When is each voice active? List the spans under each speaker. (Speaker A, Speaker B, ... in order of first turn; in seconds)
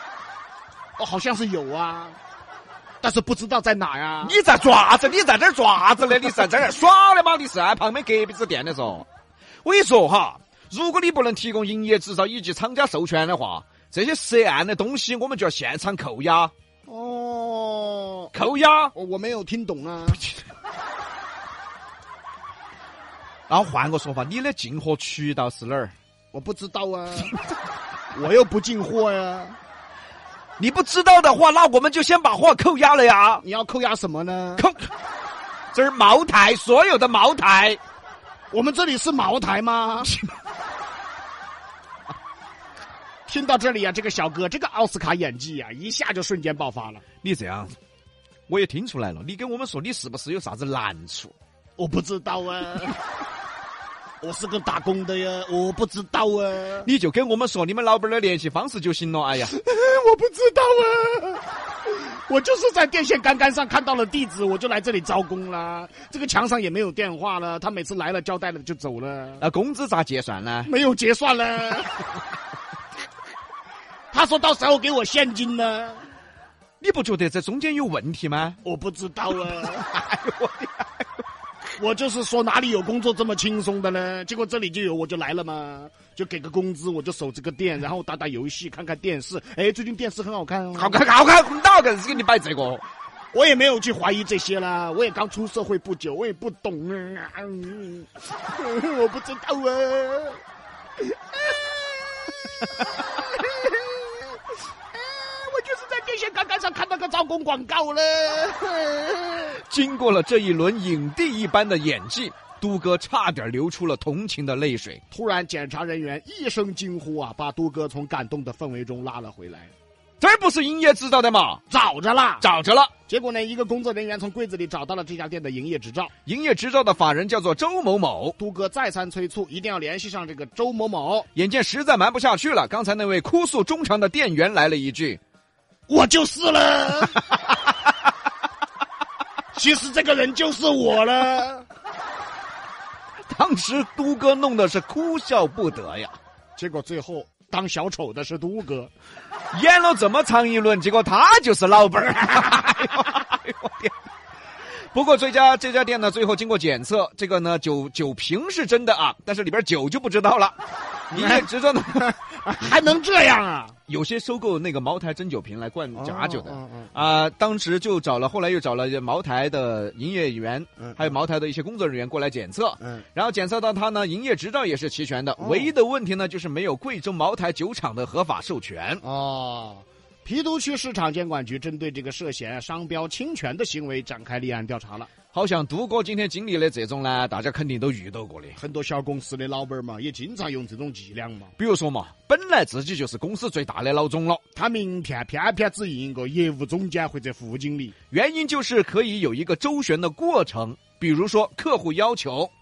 Speaker A: 1.0-2.2, 3.0-4.4, 16.9-18.3, 18.9-20.2, 26.3-27.3, 28.1-29.6, 33.4-34.6, 38.5-40.1, 43.3-47.0, 51.8-53.0, 54.2-56.9, 59.4-69.4, 70.6-72.2, 74.1-76.0, 78.6-79.9, 81.8-91.0, 93.3-100.4, 101.0-104.4, 104.9-109.6, 115.1-119.7, 121.7-122.5, 123.1-126.1, 128.4-131.3, 135.9-137.4, 139.5-141.7, 146.6-148.9, 161.1-161.5, 162.1-163.7, 165.9-166.9, 175.4-175.7, 179.0-185.1, 188.6-191.5, 194.6-197.9
Speaker B: 4.2-9.1, 9.6-16.5, 18.3-18.9, 23.5-25.9, 30.6-33.4, 34.5-34.9, 35.7-37.8, 40.1-40.3, 47.2-47.7, 48.5-51.3, 56.8-59.5, 69.4-70.7, 76.8-78.6, 79.7-81.0, 90.7-92.8, 109.6-115.0, 120.2-121.6, 122.4-122.9, 126.2-128.3, 131.3-135.2, 143.3-146.2, 149.5-153.9, 154.9-160.6, 161.1-162.2, 163.9-179.0, 185.3-188.6, 191.6-194.4, 198.1-202.5